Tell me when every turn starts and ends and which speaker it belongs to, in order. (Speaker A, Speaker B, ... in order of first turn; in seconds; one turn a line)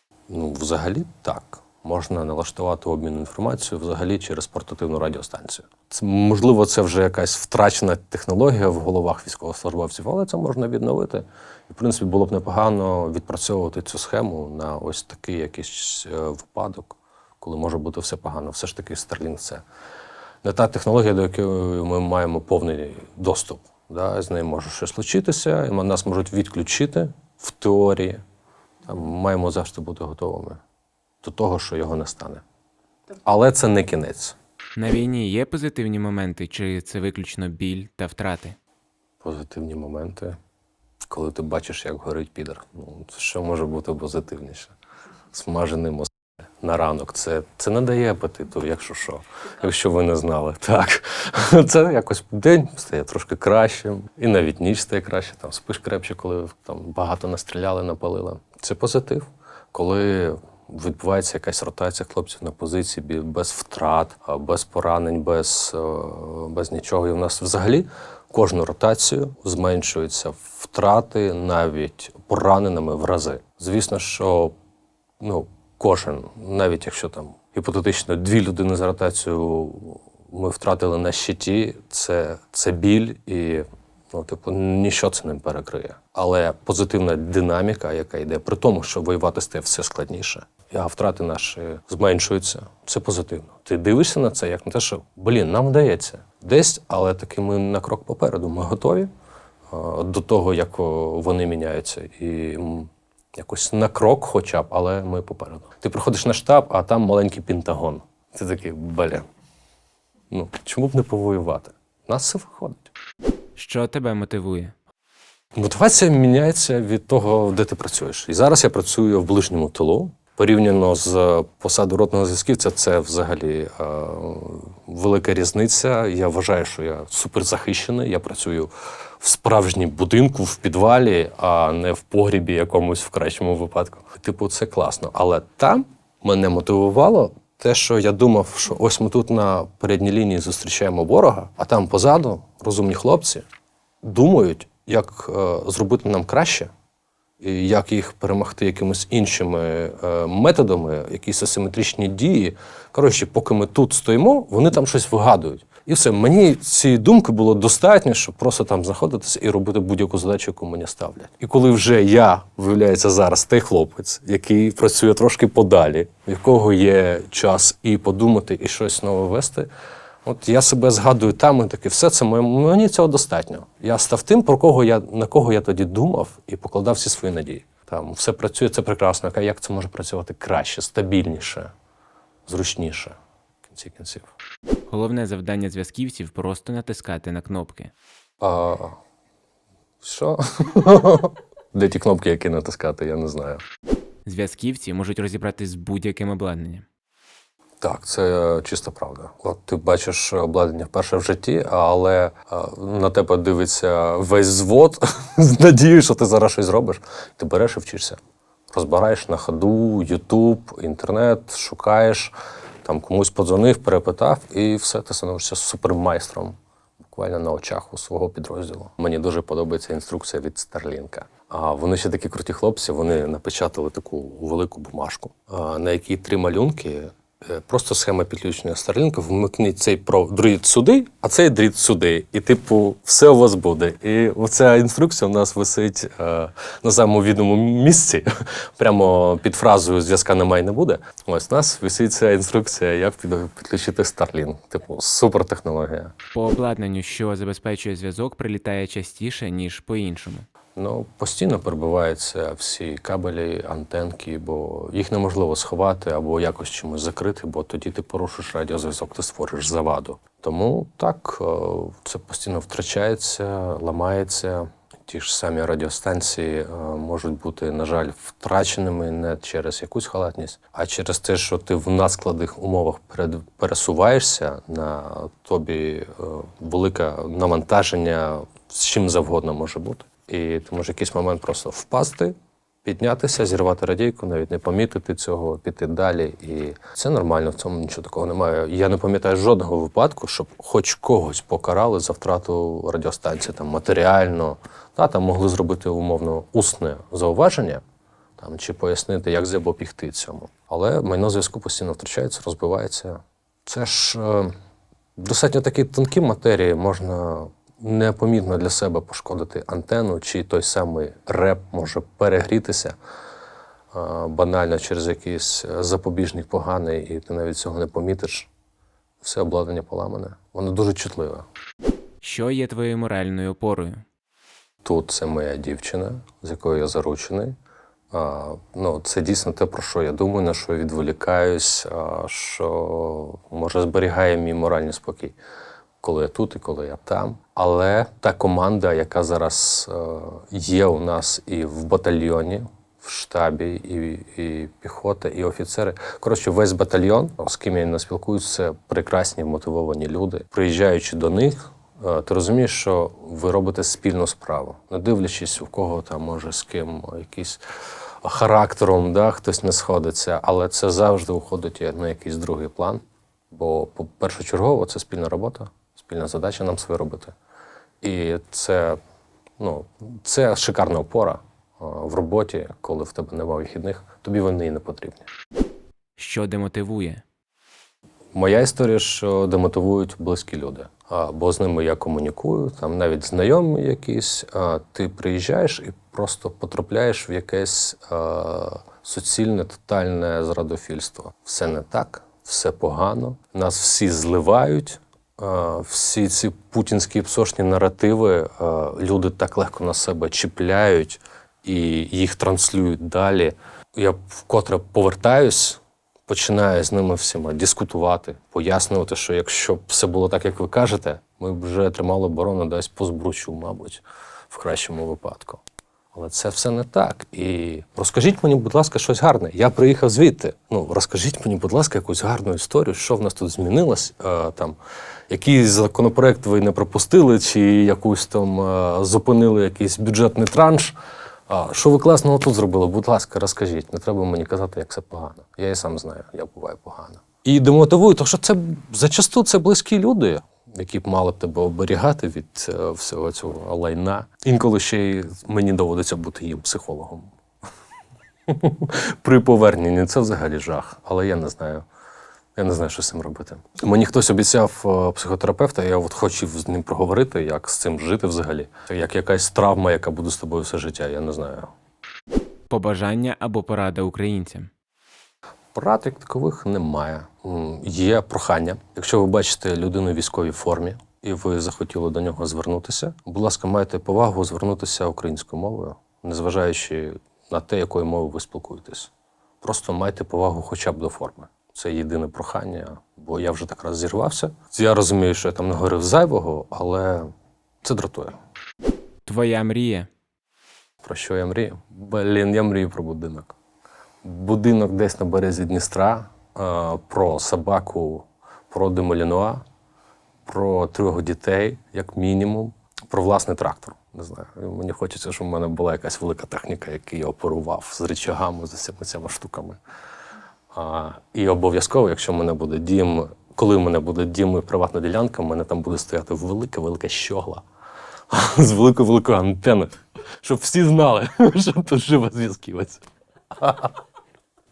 Speaker A: 0.3-19.6
Speaker A: 20.4-28.2
Speaker A: 28.9-30.6
Speaker A: 31.2-32.4
Speaker A: 33.2-34.4
Speaker B: 34.8-38.6
Speaker A: 39.2-40.4
Speaker A: 41.1-44.7
Speaker A: 45.3-46.1
Speaker A: 46.6-74.5
Speaker A: 75.2-99.1
Speaker A: 99.7-109.2
Speaker A: 110.3-112.9
Speaker B: 113.6-114.7
Speaker A: 115.5-143.4
Speaker A: 144.0-146.7
Speaker A: 147.4-169.7
Speaker A: 170.2-181.7
Speaker A: 182.5-184.3
Speaker B: 184.9-187.9
Speaker A: 188.4-189.0
Speaker A: 190.0-193.6
Speaker B: 194.2-196.8
Speaker A: 197.8-208.2
Speaker A: 208.7-212.3
Speaker A: 212.8-246.1
Speaker B: 246.3-250.4
Speaker A: 250.8-297.8
Speaker A: 298.4-304.6
Speaker A: 305.2-312.9
Speaker A: 313.9-318.5
Speaker A: 319.2-321.5
Speaker B: 322.2-324.0
Speaker A: 324.8-327.6
Speaker A: 328.1-335.4
Speaker A: 336.0-357.6
Speaker A: 358.2-367.4
Speaker A: 368.0-369.0
Speaker A: 369.6-375.3
Speaker B: 376.2-377.2
Speaker A: 378.3-424.8
Speaker A: 425.3-430.9
Speaker A: 431.5-447.3
Speaker A: 448.5-451.9
Speaker A: 452.6-461.7
Speaker B: 462.7-464.7
Speaker A: 465.7-479.1
Speaker A: 479.6-487.3
Speaker A: 487.8-488.4
Speaker B: 489.2-490.1
Speaker A: 491.0-493.6
Speaker A: 494.2-499.6
Speaker A: 500.4-509.8
Speaker A: 510.7-517.6
Speaker A: 518.3-523.0
Speaker A: 523.6-523.9